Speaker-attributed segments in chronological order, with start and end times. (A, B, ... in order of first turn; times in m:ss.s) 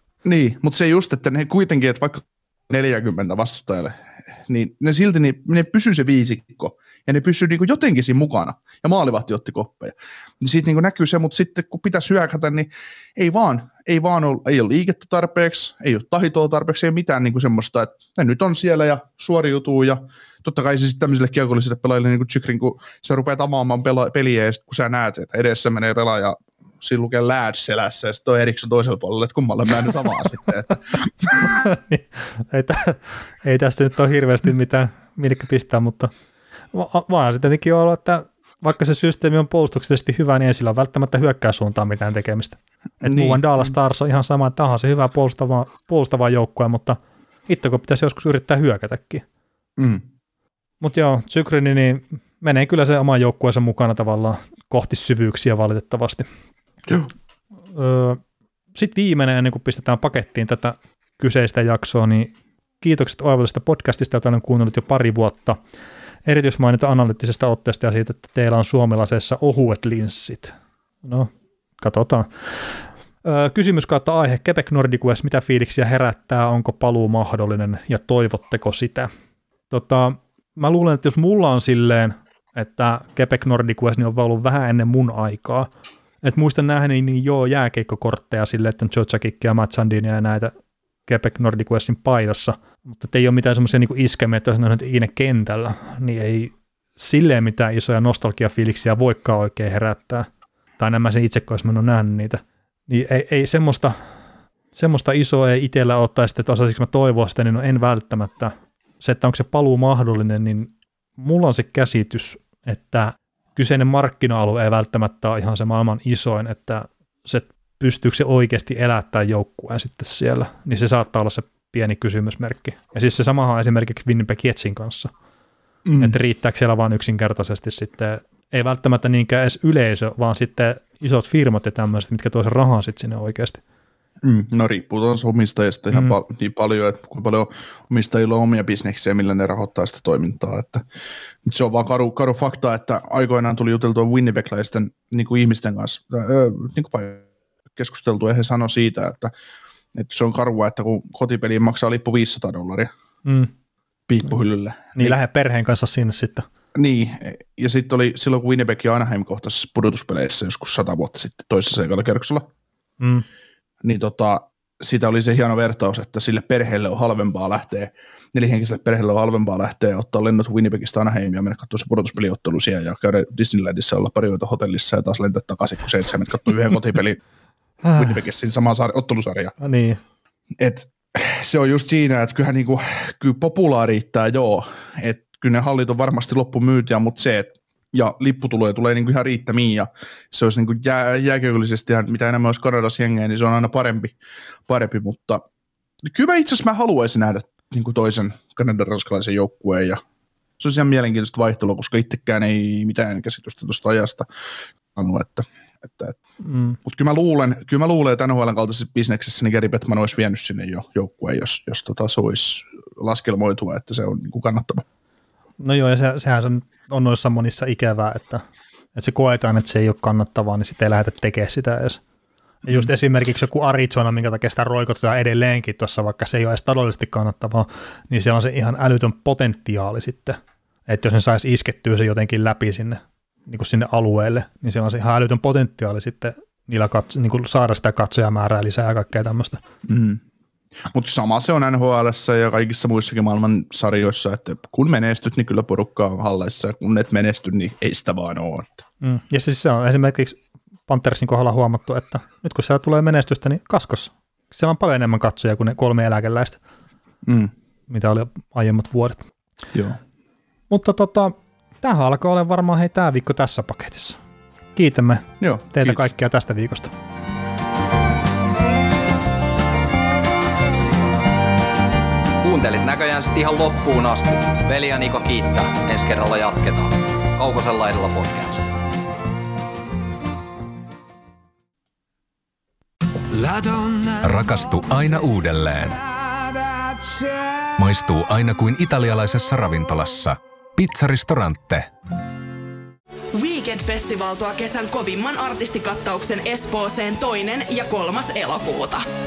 0:00.2-0:31.5 A
0:31.3-0:36.1 B
0:36.7-0:49.2 B
0:43.0-0:43.7 A
0:49.8-0:50.0 A
0:50.8-0:56.3 B
0:57.8-0:58.2 B
0:58.8-1:05.6 B
1:06.3-1:12.3 B
1:13.2-1:19.1 B
1:19.7-1:25.7 B
1:26.2-1:30.5 B
1:31.1-1:40.3 B
1:40.8-1:44.0 B
1:44.7-2:05.1 B
2:05.9-2:06.2 A
2:06.0-2:13.6 B
2:14.2-2:20.8 A
2:15.9-2:16.2 B
2:21.4-2:29.3 A
2:30.0-2:32.9 A
2:33.2-2:33.5 B
2:34.1-2:35.2 A
2:35.0-2:36.5 B
2:36.8-2:42.5 A
2:43.0-2:43.2 B
2:43.8-2:57.2 A
2:57.8-2:58.2 B
2:58.0-2:59.5 A
2:59.6-3:00.0 B
3:00.6-3:14.2 A
3:14.7-3:15.4 A
3:16.0-3:20.0 A
3:20.6-3:24.3 A
3:24.9-3:26.2 A
3:26.4-3:26.8 B
3:26.8-3:34.8 A
3:35.6-3:38.4 B
3:39.0-3:42.0 B
3:42.7-3:59.6 B
3:59.9-4:00.2 A
4:00.9-4:08.8 A
4:09.0-4:16.6 B
4:17.3-4:17.5 A
4:17.9-4:19.2 B
4:19.7-4:20.0 A
4:20.7-4:24.2 B
4:24.8-4:26.9 B
4:25.4-4:26.1 A
4:32.4-4:38.7 C
4:43.3-4:46.0 D
4:47.8-4:51.9 D
4:53.3-4:59.0 E